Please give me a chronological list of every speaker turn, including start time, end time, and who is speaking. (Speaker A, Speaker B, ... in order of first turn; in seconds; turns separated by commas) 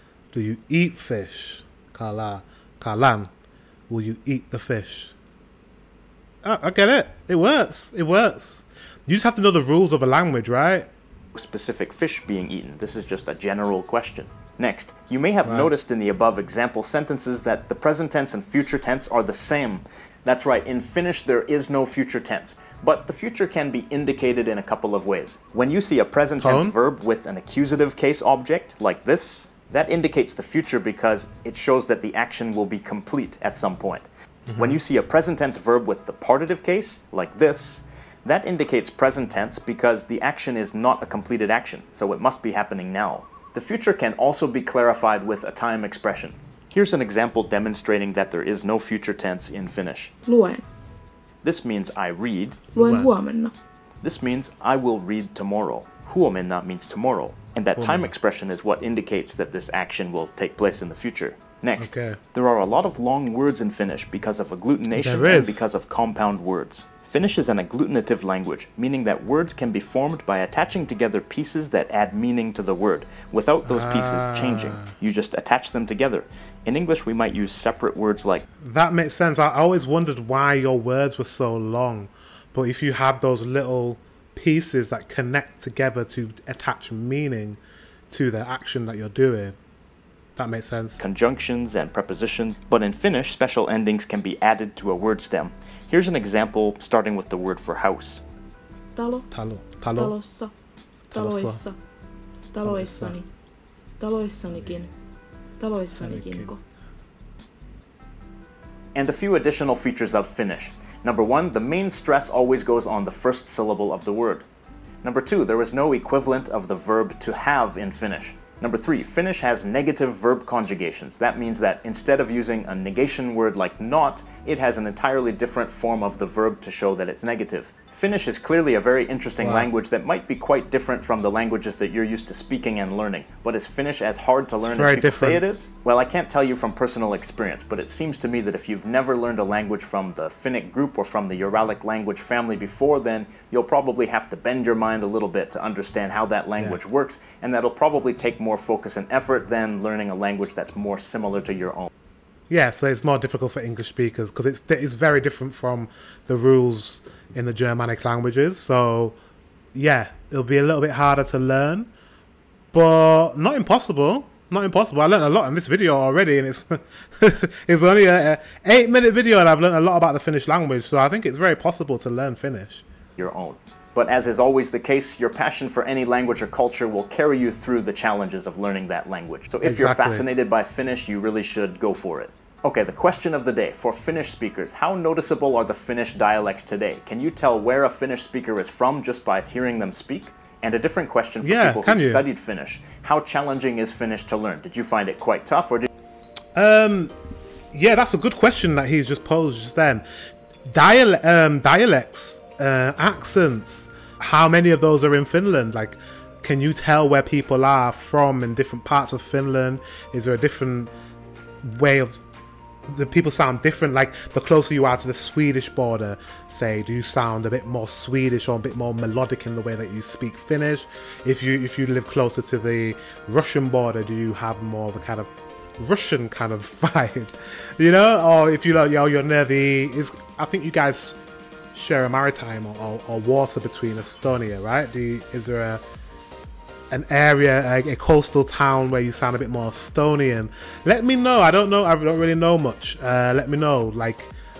Speaker A: 0.3-3.3, Speaker A: 3.9-5.1, Speaker A: 6.4-10.9, Speaker B: 11.3-50.1, Speaker A: 15.4-15.7, Speaker A: 26.4-26.8, Speaker A: 34.5-34.8, Speaker C: 50.3-50.6, Speaker B: 51.4-52.7, Speaker C: 52.7-53.5, Speaker A: 52.8-53.1, Speaker B: 54.0-78.5, Speaker A: 57.8-58.1, Speaker A: 61.8-62.2, Speaker A: 64.9-65.6, Speaker A: 73.7-74.9, Speaker A: 78.6-87.6, Speaker A: 88.1-89.6, Speaker A: 90.4-91.0, Speaker B: 91.0-98.2, Speaker C: 99.0-99.3, Speaker A: 99.3-100.2, Speaker C: 99.9-100.5, Speaker A: 101.1-101.6, Speaker C: 101.1-101.8, Speaker C: 102.5-103.3, Speaker A: 102.7-103.2, Speaker C: 104.0-104.9, Speaker C: 105.6-106.6, Speaker A: 106.0-106.5, Speaker B: 109.0-114.5, Speaker B: 115.0-151.9, Speaker A: 129.4-129.7, Speaker A: 134.6-135.4, Speaker A: 152.5-159.2, Speaker A: 159.7-161.9, Speaker A: 162.7-172.8, Speaker B: 173.2-195.9, Speaker A: 179.6-180.2, Speaker A: 191.4-192.3, Speaker A: 196.6-197.1, Speaker A: 197.7-200.1, Speaker A: 200.7-210.9, Speaker A: 211.6-212.2, Speaker A: 212.9-231.2, Speaker A: 231.7-235.8, Speaker A: 236.9-244.3